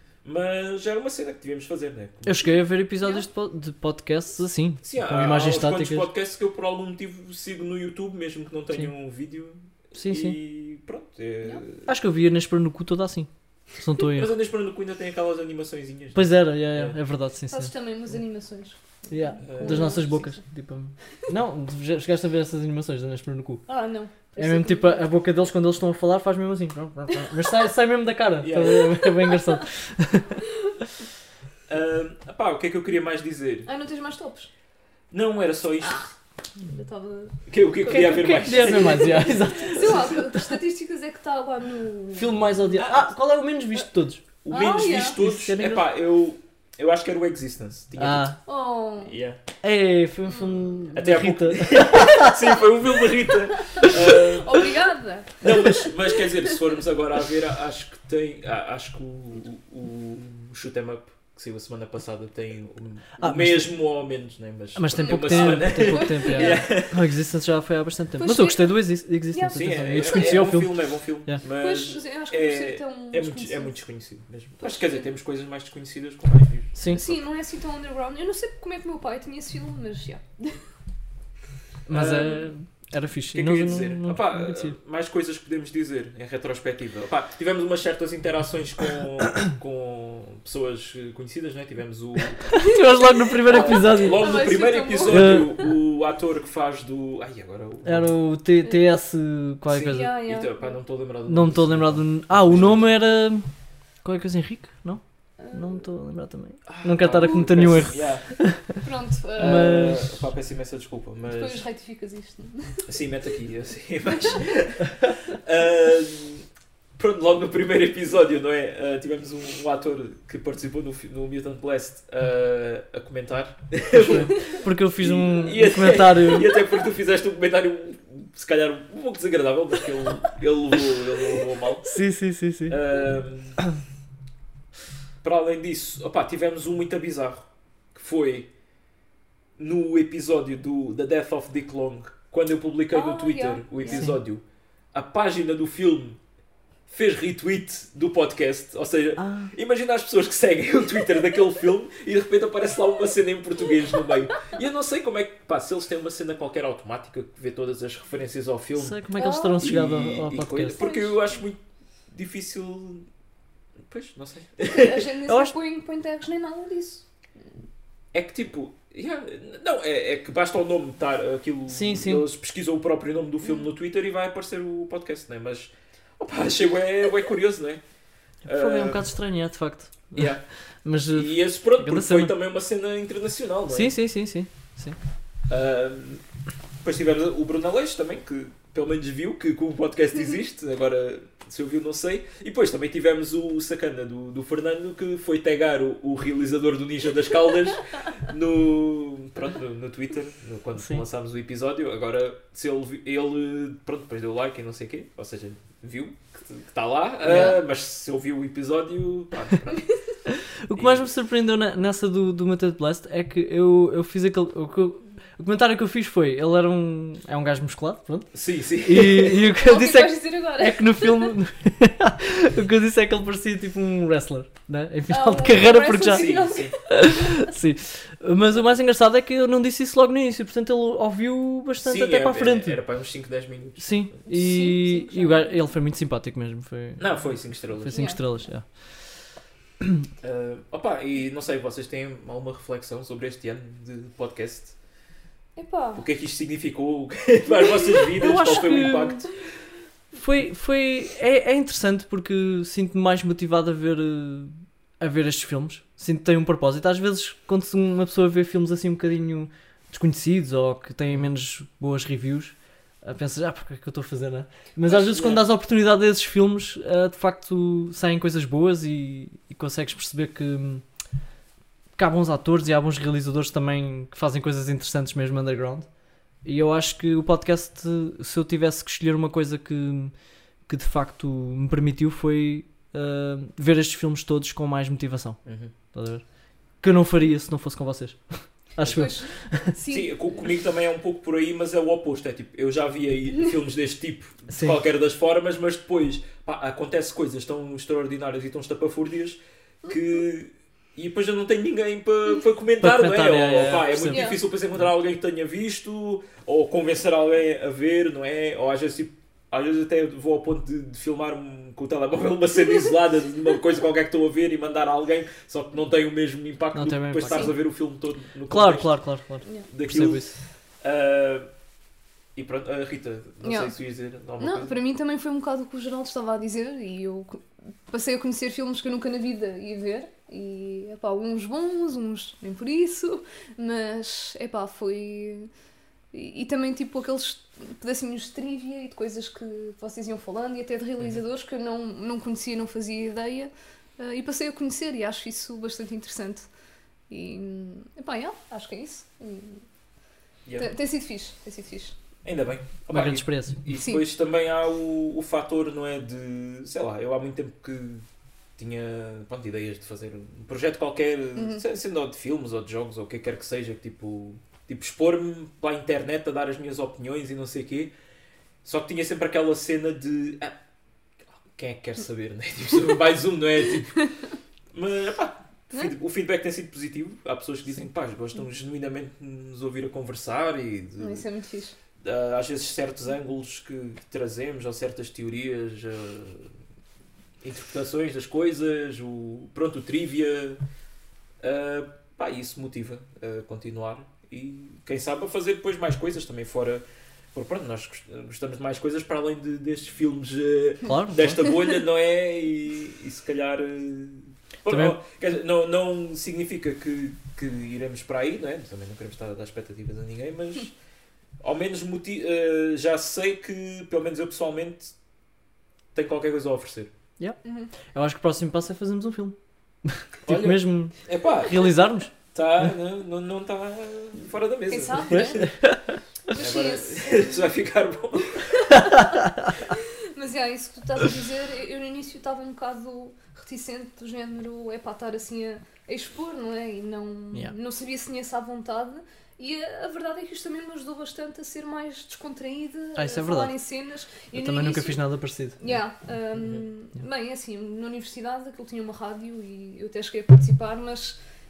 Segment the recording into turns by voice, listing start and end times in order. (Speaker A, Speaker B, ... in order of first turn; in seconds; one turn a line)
Speaker A: 0.2-2.4
Speaker B: 2.2-6.1
Speaker C: 3.0-3.2
Speaker A: 4.8-11.9
Speaker B: 9.9-10.4
Speaker B: 11.8-14.3
Speaker A: 14.1-16.9
Speaker B: 16.1-17.7
Speaker C: 17.5-20.4
Speaker B: 19.1-23.6
Speaker A: 19.4-20.1
Speaker C: 23.7-25.1
Speaker B: 24.4-30.3
Speaker A: 28.4-29.0
Speaker A: 31.7-33.7
Speaker C: 33.6-34.5
Speaker A: 35.1-36.1
Speaker C: 35.8-36.1
Speaker C: 36.6-37.4
Speaker A: 37.5-40.1
Speaker B: 37.8-40.2
Speaker C: 38.2-42.8
Speaker B: 42.1-44.2
Speaker A: 44.4-48.4
Speaker C: 44.5-45.2
Speaker B: 45.2-45.9
Speaker B: 48.0-48.4
Speaker C: 48.5-49.2
Speaker A: 49.0-49.4
Speaker B: 49.6-52.4
Speaker C: 50.3-50.8
Speaker A: 50.9-54.7
Speaker C: 53.6-55.8
Speaker A: 55.4-67.0
Speaker B: 63.2-63.7
Speaker B: 64.7-71.4
Speaker C: 64.9-66.7
Speaker C: 68.2-68.7
Speaker C: 69.3-70.5
Speaker A: 69.5-77.2
Speaker C: 71.4-73.8
Speaker C: 74.6-75.0
Speaker B: 76.8-77.0
Speaker C: 76.9-80.6
Speaker B: 81.9-84.8
Speaker A: 81.9-82.4
Speaker C: 82.0-82.4
Speaker A: 83.3-92.6
Speaker B: 92.5-94.4
Speaker C: 92.5-95.7
Speaker A: 93.5-98.1
Speaker B: 95.1-95.5
Speaker B: 97.8-100.1
Speaker A: 99.7-102.8
Speaker C: 99.8-100.8
Speaker B: 101.3-103.5
Speaker B: 104.0-108.8
Speaker C: 105.4-105.8
Speaker A: 106.7-108.5
Speaker C: 107.2-107.7
Speaker C: 108.8-109.9
Speaker A: 109.4-111.6
Speaker B: 109.4-110.0
Speaker C: 111.3-112.8
Speaker A: 112.8-131.9
Speaker C: 114.1-114.4
Speaker B: 123.9-126.5
Speaker B: 131.9-132.8
Speaker A: 132.7-133.6
Speaker A: 135.2-138.5
Speaker A: 139.6-146.2
Speaker C: 142.9-144.2
Speaker B: 143.9-144.2
Speaker A: 146.9-159.0
Speaker B: 149.2-149.5
Speaker B: 158.8-160.8
Speaker C: 159.2-159.7
Speaker A: 159.6-163.1
Speaker C: 160.7-161.4
Speaker A: 163.8-165.1
Speaker C: 164.7-167.0
Speaker B: 165.2-165.5
Speaker A: 168.1-177.8
Speaker B: 171.7-172.2
Speaker A: 178.4-179.0
Speaker B: 178.4-182.3
Speaker A: 180.1-180.4
Speaker A: 181.1-183.9
Speaker B: 183.7-185.0
Speaker A: 185.5-186.2
Speaker A: 186.8-209.9
Speaker B: 207.2-207.5
Speaker B: 210.2-226.3
Speaker A: 210.7-211.1
Speaker A: 218.3-219.4
Speaker C: 219.3-221.3
Speaker C: 225.1-226.7
Speaker A: 226.0-226.8
Speaker B: 226.9-232.8
Speaker A: 231.8-234.2
Speaker B: 233.8-237.0
Speaker C: 234.3-235.7
Speaker A: 237.0-238.0
Speaker B: 237.8-238.7
Speaker C: 237.9-238.5
Speaker A: 240.2-244.8
Speaker C: 245.6-246.0
Speaker A: 245.9-249.3
Speaker B: 248.2-249.2
Speaker B: 250.1-270.8
Speaker A: 264.9-265.4
Speaker B: 271.9-275.9
Speaker B: 276.4-285.4
Speaker A: 285.4-285.7
Speaker B: 285.9-286.2
Speaker B: 286.8-289.7
Speaker C: 288.8-290.1
Speaker A: 289.9-318.9
Speaker B: 294.5-294.8
Speaker C: 299.8-300.1
Speaker B: 302.8-304.3
Speaker C: 304.0-304.4
Speaker B: 316.7-317.6
Speaker C: 317.3-317.5
Speaker B: 318.5-320.3
Speaker A: 319.7-320.3
Speaker A: 320.8-321.5
Speaker A: 322.3-324.8
Speaker C: 323.4-323.7
Speaker C: 324.4-335.5
Speaker C: 336.1-346.5
Speaker A: 341.0-341.2
Speaker C: 347.1-349.6
Speaker C: 350.6-351.9
Speaker A: 352.2-358.1
Speaker B: 352.9-353.6
Speaker C: 353.7-354.1
Speaker A: 358.6-367.9
Speaker C: 361.4-361.6
Speaker A: 368.6-370.6
Speaker A: 371.5-374.0
Speaker A: 374.7-381.2
Speaker C: 381.0-381.7
Speaker A: 382.0-386.6
Speaker A: 387.4-390.6
Speaker A: 391.4-410.7
Speaker B: 400.8-401.4
Speaker B: 404.7-405.0
Speaker A: 411.4-414.9
Speaker A: 415.9-416.9
Speaker B: 417.2-422.1
Speaker C: 417.4-417.7
Speaker A: 420.2-425.5
Speaker C: 424.7-425.5
Speaker B: 425.1-425.7
Speaker C: 426.3-427.5
Speaker A: 426.3-428.6
Speaker C: 428.5-445.0
Speaker B: 429.0-429.5
Speaker B: 442.9-443.5
Speaker B: 444.3-445.6
Speaker C: 445.6-451.2
Speaker A: 446.4-446.6